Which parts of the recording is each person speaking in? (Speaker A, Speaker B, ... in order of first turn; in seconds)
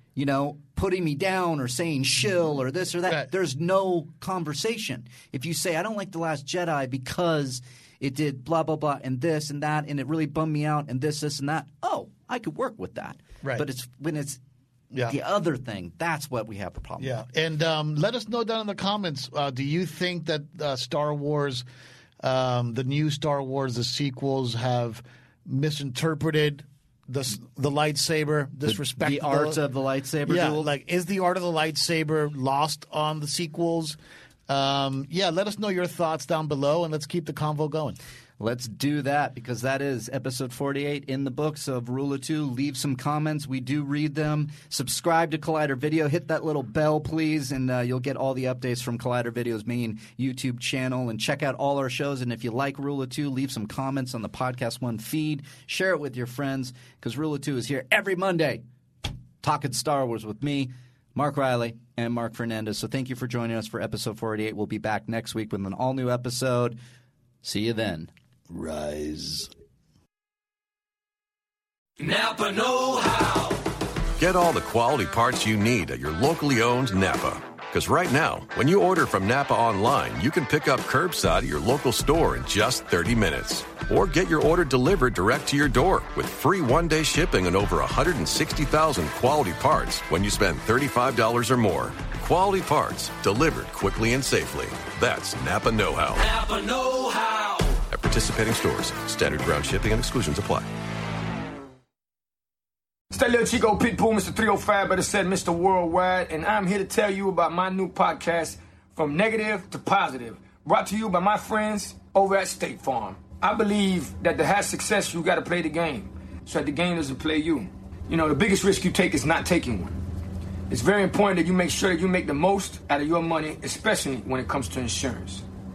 Speaker A: 0.1-14.4, 15.1-17.2, 28.6-30.7, 38.4-58.6, 59.4-66.8, 67.4-68.1
Speaker B: 17.0-21.6, 22.2-29.6, 30.2-38.0, 68.5-69.5
Speaker C: 72.0-73.7, 96.2-97.8
Speaker D: 74.2-96.2, 97.9-100.7
Speaker E: 103.1-120.0, 120.7-125.4